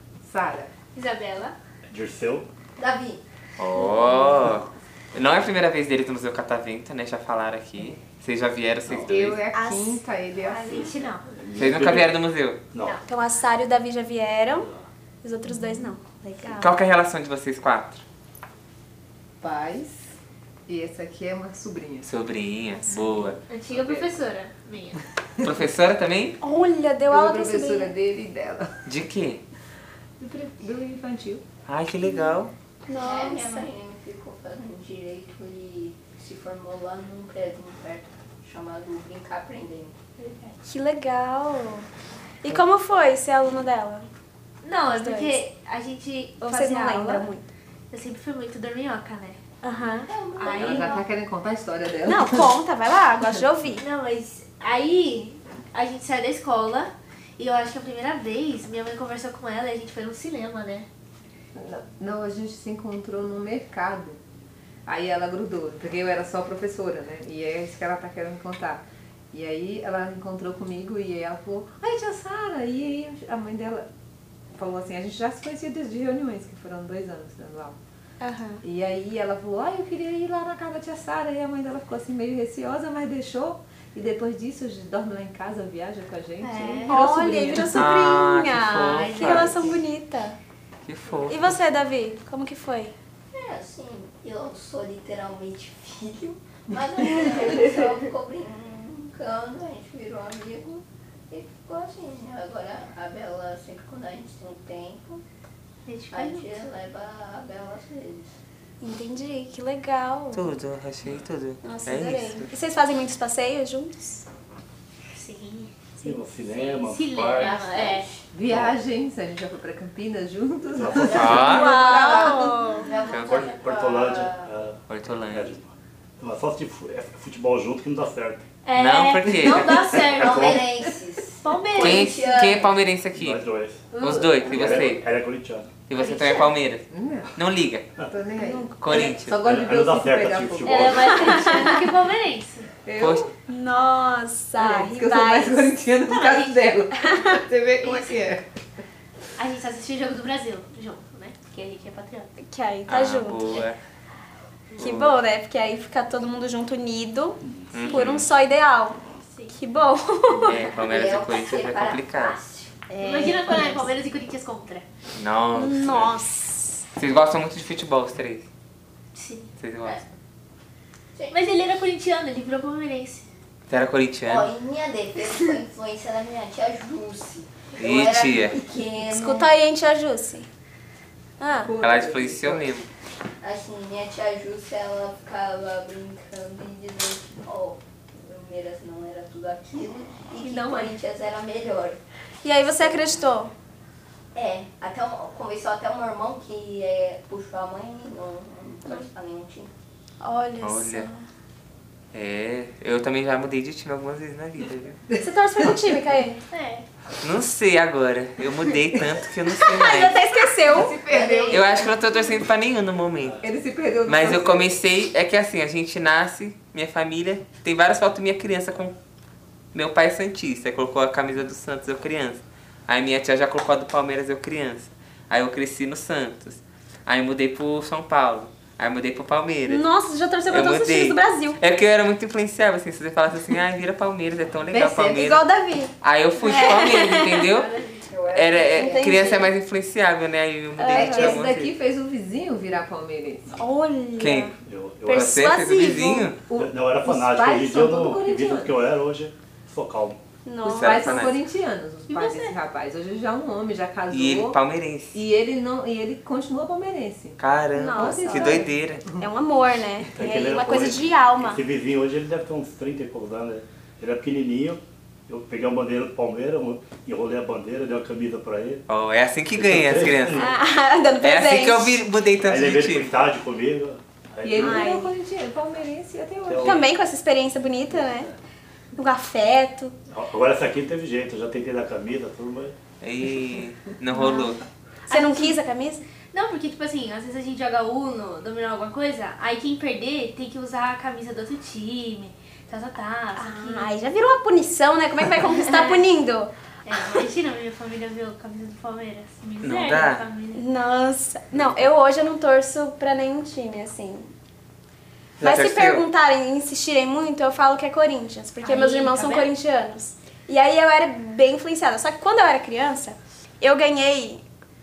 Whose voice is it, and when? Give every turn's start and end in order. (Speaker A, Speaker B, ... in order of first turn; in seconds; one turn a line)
Speaker A: 0.2-0.7
Speaker B: 0.9-1.5
Speaker C: 1.9-2.5
Speaker D: 2.8-3.2
Speaker E: 3.6-9.4
Speaker A: 8.9-10.9
Speaker F: 9.5-10.0
Speaker B: 10.5-11.2
Speaker C: 11.3-12.2
Speaker E: 11.6-12.6
Speaker C: 12.7-13.0
Speaker F: 12.9-14.7
Speaker F: 15.2-16.7
Speaker E: 16.6-18.0
Speaker A: 19.4-20.1
Speaker A: 20.7-22.1
Speaker E: 22.0-23.4
Speaker B: 23.5-25.0
Speaker A: 23.7-24.1
Speaker E: 25.4-26.4
Speaker F: 26.4-27.9
Speaker A: 27.1-28.7
Speaker E: 28.9-29.4
Speaker A: 30.2-31.4
Speaker E: 31.7-32.5
Speaker F: 32.9-33.7
Speaker D: 32.9-39.9
Speaker B: 40.2-40.5
Speaker F: 40.6-41.9
Speaker F: 42.4-44.1
Speaker B: 44.6-47.3
Speaker F: 44.9-45.4
Speaker F: 46.4-47.4
Speaker B: 47.9-49.4
Speaker F: 49.6-50.1
Speaker D: 50.1-51.0
Speaker B: 50.4-51.0
Speaker A: 50.5-52.5
Speaker F: 52.0-53.8
Speaker B: 53.8-60.9
Speaker A: 61.5-64.2
Speaker A: 64.8-73.8
Speaker A: 74.5-77.8
Speaker F: 78.2-78.6
Speaker A: 78.6-87.8
Speaker B: 86.4-87.7
Speaker F: 86.9-90.4
Speaker E: 87.7-89.6
Speaker B: 88.8-89.8
Speaker E: 90.8-91.6
Speaker F: 91.2-92.9
Speaker D: 93.3-105.2
Speaker B: 105.9-106.7
Speaker D: 106.1-108.3
Speaker F: 108.8-110.5
Speaker E: 110.3-112.5
Speaker F: 111.6-114.2
Speaker B: 115.1-115.7
Speaker C: 116.0-117.8
Speaker B: 116.5-118.1
Speaker D: 117.3-118.2
Speaker A: 118.3-122.6
Speaker C: 120.7-121.6
Speaker D: 120.9-124.5
Speaker E: 121.0-121.8
Speaker F: 121.6-123.0
Speaker E: 123.0-123.5
Speaker C: 123.1-128.4
Speaker E: 124.9-125.5
Speaker B: 128.6-130.7
Speaker E: 128.7-130.0
Speaker C: 129.9-130.9
Speaker D: 130.1-132.8
Speaker B: 131.4-132.2
Speaker E: 131.8-133.4
Speaker C: 133.1-135.8
Speaker A: 133.9-134.5
Speaker E: 134.0-135.0
Speaker B: 134.1-134.6
Speaker E: 135.9-136.8
Speaker B: 136.0-136.4
Speaker A: 136.9-137.3
Speaker E: 137.3-137.9
Speaker A: 138.1-141.2
Speaker F: 138.4-138.9
Speaker E: 138.8-139.4
Speaker C: 139.3-141.5
Speaker B: 140.6-142.7
Speaker F: 141.1-141.9
Speaker A: 142.8-143.3
Speaker E: 143.0-143.3
Speaker F: 143.4-145.8
Speaker A: 144.6-148.4
Speaker B: 146.0-146.7
Speaker F: 147.0-147.3
Speaker B: 147.8-148.3
Speaker B: 149.4-152.3
Speaker F: 152.4-153.5
Speaker E: 152.9-153.8
Speaker E: 154.7-155.1
Speaker F: 154.8-160.8
Speaker E: 157.7-158.3
Speaker B: 157.8-158.1
Speaker B: 159.3-159.6
Speaker E: 160.3-162.4
Speaker D: 160.8-163.8
Speaker B: 162.9-164.9
Speaker E: 165.1-166.2
Speaker F: 165.6-166.8
Speaker E: 166.9-168.5
Speaker B: 169.1-169.5
Speaker E: 169.6-170.0
Speaker B: 171.3-173.3
Speaker E: 173.7-174.5
Speaker D: 174.2-179.5
Speaker E: 177.8-178.6
Speaker F: 179.0-180.4
Speaker F: 181.4-181.8
Speaker A: 181.6-182.7
Speaker E: 181.8-182.9
Speaker D: 183.4-192.0
Speaker B: 190.4-190.9
Speaker F: 192.4-193.5
Speaker D: 192.7-193.2
Speaker D: 194.3-199.7
Speaker F: 200.2-201.2
Speaker E: 200.6-201.1
Speaker E: 202.1-205.0
Speaker A: 205.1-206.0
Speaker F: 205.1-206.4
Speaker B: 206.5-206.8
Speaker E: 207.2-210.2
Speaker F: 209.6-211.0
Speaker A: 210.7-211.7
Speaker D: 210.9-211.9
Speaker E: 211.5-213.4
Speaker A: 213.4-214.7
Speaker E: 214.1-218.9
Speaker E: 219.7-229.9
Speaker F: 229.7-231.6
Speaker E: 230.5-235.4
Speaker A: 234.7-235.2
Speaker F: 235.1-237.5
Speaker E: 236.0-237.7
Speaker B: 237.4-238.1
Speaker D: 237.6-239.5
Speaker E: 238.3-241.7
Speaker F: 238.8-239.5
Speaker F: 240.8-241.4
Speaker A: 240.9-243.6
Speaker F: 243.5-244.5
Speaker E: 244.2-244.5
Speaker C: 244.6-245.3
Speaker F: 245.1-246.4
Speaker E: 245.1-246.4
Speaker C: 246.5-250.2
Speaker A: 246.5-248.8
Speaker F: 250.4-251.0
Speaker A: 250.6-254.6
Speaker E: 250.8-251.4
Speaker B: 252.1-252.6
Speaker E: 254.1-255.2
Speaker A: 255.1-257.4
Speaker E: 257.4-259.1
Speaker F: 257.8-258.6
Speaker A: 257.9-259.3
Speaker F: 259.1-261.6
Speaker C: 260.1-268.9
Speaker E: 268.9-270.5
Speaker C: 269.5-270.5
Speaker F: 270.4-272.1
Speaker E: 271.2-273.1
Speaker C: 272.4-274.8
Speaker A: 274.4-276.8
Speaker F: 274.6-275.1
Speaker C: 276.4-276.9
Speaker F: 276.6-278.3
Speaker F: 278.9-279.9
Speaker C: 280.1-282.7
Speaker E: 283.0-284.6
Speaker F: 284.1-284.6
Speaker B: 285.1-285.6
Speaker F: 285.1-286.0
Speaker B: 286.3-293.9
Speaker F: 293.3-296.5
Speaker B: 295.5-296.1
Speaker B: 296.8-300.7
Speaker E: 299.6-300.2
Speaker F: 300.5-304.3
Speaker E: 305.4-306.1
Speaker F: 305.4-314.4
Speaker B: 308.6-309.5